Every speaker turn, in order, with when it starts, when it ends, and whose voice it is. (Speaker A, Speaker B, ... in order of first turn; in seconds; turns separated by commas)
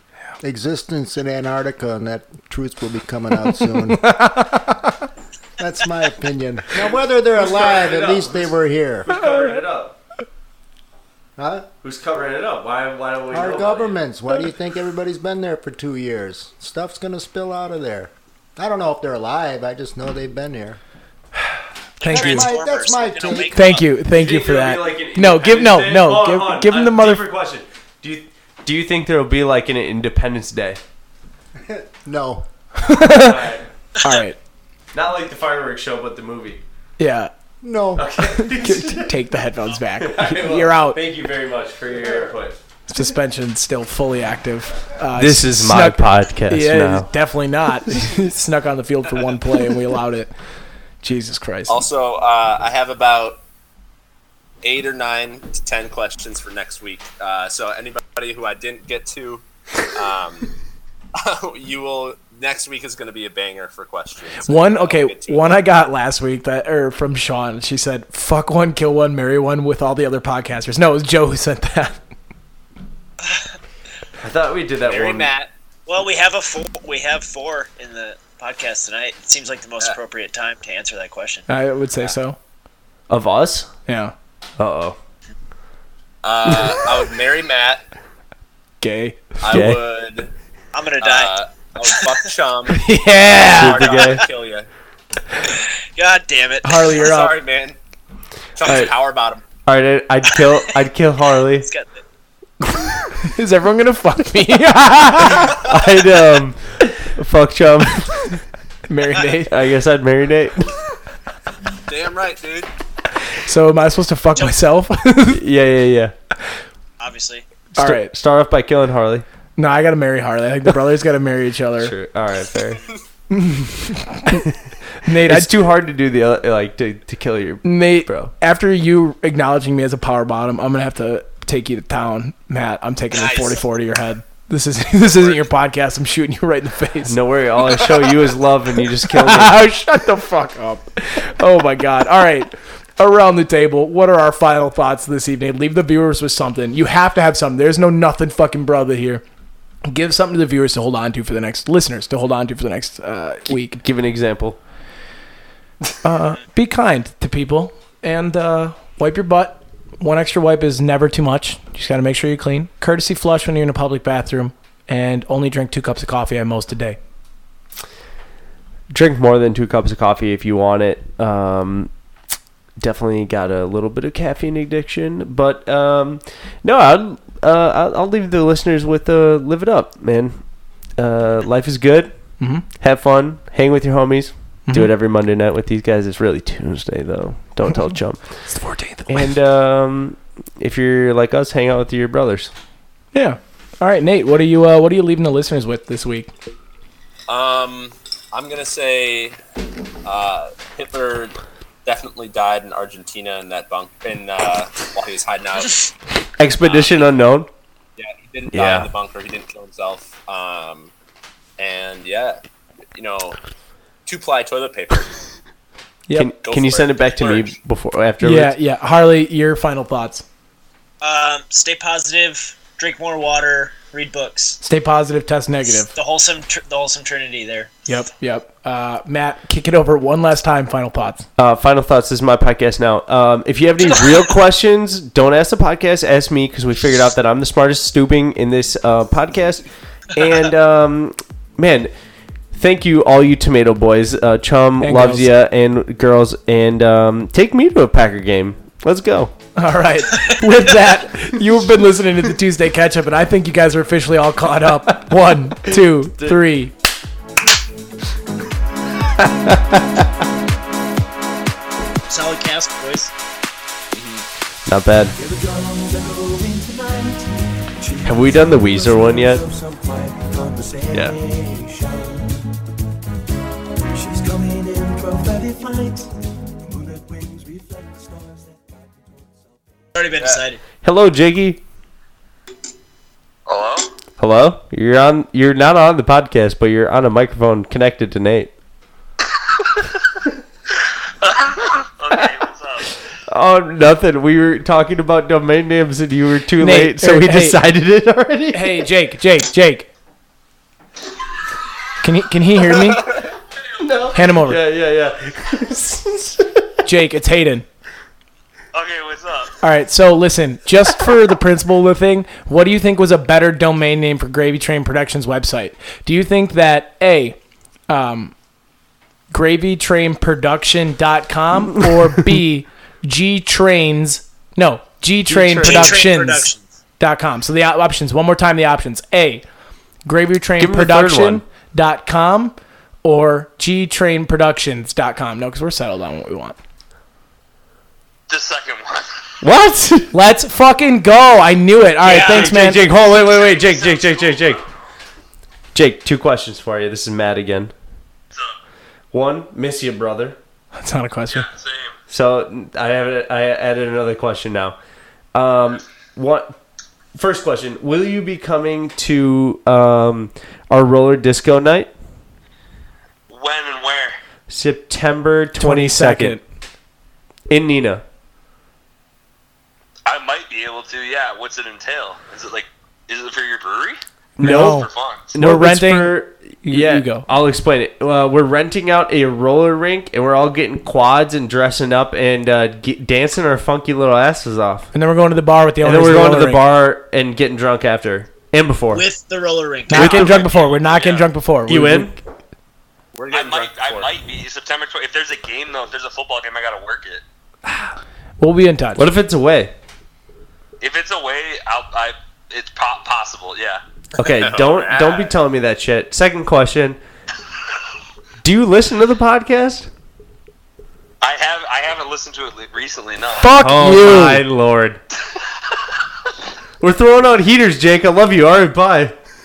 Speaker A: 0.4-4.3, Speaker B: 3.9-4.9, Speaker A: 5.6-9.1, Speaker C: 7.3-9.9, Speaker B: 9.1-9.5, Speaker A: 11.4-11.7, Speaker C: 11.8-14.0, Speaker A: 13.3-20.8, Speaker D: 22.0-23.9, Speaker B: 22.0-22.6, Speaker A: 22.1-23.7, Speaker B: 23.5-27.2, Speaker C: 24.1-30.8, Speaker A: 31.6-32.5, Speaker B: 32.8-34.4, Speaker C: 33.1-33.7, Speaker C: 34.9-36.6, Speaker B: 37.0-37.3, Speaker A: 37.6-38.1, Speaker C: 38.0-39.1, Speaker B: 38.2-41.0, Speaker C: 40.0-42.6, Speaker B: 42.9-50.3, Speaker C: 45.1-47.1, Speaker B: 51.0-51.8, Speaker E: 51.7-53.4, Speaker E: 54.6-60.5, Speaker E: 61.2-65.6, Speaker B: 64.5-72.0, Speaker C: 74.2-75.3, Speaker E: 74.9-75.5, Speaker D: 75.9-81.5, Speaker B: 81.5-82.4, Speaker C: 83.1-83.7, Speaker B: 83.9-84.1, Speaker C: 84.6-85.0, Speaker E: 86.2-87.8, Speaker B: 88.8-89.4, Speaker E: 89.4-90.3, Speaker C: 89.5-89.8, Speaker D: 90.7-92.1, Speaker E: 91.0-92.8, Speaker B: 92.7-94.0, Speaker E: 93.5-94.7, Speaker C: 93.5-94.2, Speaker D: 95.5-97.1, Speaker B: 96.6-97.4, Speaker E: 97.0-97.8, Speaker E: 98.6-99.4, Speaker C: 98.7-98.9, Speaker C: 99.7-101.7, Speaker D: 100.3-100.8, Speaker D: 101.5-102.0, Speaker B: 103.2-105.6, Speaker C: 105.5-108.3, Speaker B: 108.9-109.5, Speaker C: 109.5-110.6, Speaker E: 111.9-112.7, Speaker B: 113.3-115.4, Speaker C: 115.3-116.1, Speaker D: 117.0-117.5, Speaker C: 117.8-119.2, Speaker B: 117.8-118.1, Speaker B: 119.6-121.9, Speaker C: 121.8-122.8, Speaker B: 123.3-125.7, Speaker C: 125.2-128.3, Speaker B: 127.6-137.2, Speaker E: 133.1-133.6, Speaker E: 135.0-135.4, Speaker C: 137.1-139.6, Speaker B: 139.1-149.2, Speaker B: 149.9-153.8, Speaker C: 153.5-154.6, Speaker B: 156.0-167.0, Speaker C: 168.9-171.9, Speaker C: 172.8-180.4, Speaker C: 181.0-182.2, Speaker B: 182.4-182.7, Speaker C: 182.8-188.2, Speaker B: 188.5-189.3, Speaker C: 189.1-192.5, Speaker B: 193.1-196.3, Speaker E: 197.3-199.4, Speaker E: 200.0-205.9, Speaker C: 206.4-207.5, Speaker E: 206.6-207.1, Speaker E: 208.0-210.9, Speaker C: 208.5-208.9, Speaker E: 211.6-212.4, Speaker E: 212.9-213.4, Speaker E: 214.1-215.2, Speaker C: 216.2-218.5, Speaker E: 216.4-217.5, Speaker B: 218.2-220.2, Speaker D: 221.0-224.6, Speaker B: 224.6-225.9, Speaker D: 225.9-227.8, Speaker B: 227.9-231.3, Speaker C: 231.4-241.9, Speaker C: 242.5-249.3, Speaker B: 244.8-245.3, Speaker B: 249.6-256.7, Speaker C: 259.2-260.1, Speaker D: 262.1-263.1, Speaker E: 263.9-264.2, Speaker C: 264.7-265.2, Speaker F: 265.2-272.3, Speaker C: 268.0-269.4, Speaker C: 270.9-271.2, Speaker F: 273.9-276.1, Speaker F: 276.6-279.5, Speaker D: 279.9-280.6, Speaker E: 280.1-280.4, Speaker C: 280.8-281.6, Speaker G: 283.5-283.9, Speaker C: 284.2-288.5, Speaker G: 291.2-292.9, Speaker C: 293.3-298.9, Speaker B: 296.6-297.6, Speaker B: 298.5-299.9, Speaker B: 302.0-303.1, Speaker C: 303.8-306.7, Speaker B: 304.1-304.6, Speaker B: 306.9-307.7, Speaker G: 308.7-309.5, Speaker B: 309.6-317.4, Speaker B: 317.9-318.3, Speaker B: 319.3-326.5, Speaker C: 325.3-326.1, Speaker D: 325.6-326.6, Speaker B: 327.0-329.4, Speaker B: 330.1-336.6, Speaker C: 330.6-331.4, Speaker G: 338.3-339.2, Speaker C: 339.4-340.1, Speaker B: 340.1-342.9, Speaker D: 342.0-342.5, Speaker C: 342.1-344.6, Speaker G: 342.9-344.7, Speaker C: 345.7-347.7, Speaker C: 349.1-350.4, Speaker B: 350.7-351.5, Speaker G: 351.3-352.0, Speaker C: 352.1-354.8, Speaker C: 355.3-356.6, Speaker C: 357.2-361.9, Speaker G: 363.3-364.2, Speaker C: 364.5-366.4, Speaker B: 365.6-366.4, Speaker C: 367.5-368.0, Speaker G: 370.1-375.4, Speaker B: 374.4-377.3, Speaker C: 374.4-384.9, Speaker B: 384.9-386.6, Speaker C: 385.8-389.0, Speaker D: 388.9-390.4, Speaker B: 389.9-392.2, Speaker C: 389.9-390.3, Speaker G: 390.2-391.3, Speaker C: 391.7-392.2, Speaker E: 393.1-394.1, Speaker G: 393.3-397.2, Speaker B: 398.4-399.1, Speaker C: 399.0-399.7, Speaker G: 400.8-403.8, Speaker E: 404.2-405.4, Speaker C: 404.2-407.0, Speaker C: 408.4-409.9, Speaker G: 411.2-413.6, Speaker B: 413.4-414.4, Speaker C: 413.6-415.0, Speaker G: 415.3-415.9, Speaker C: 416.8-419.1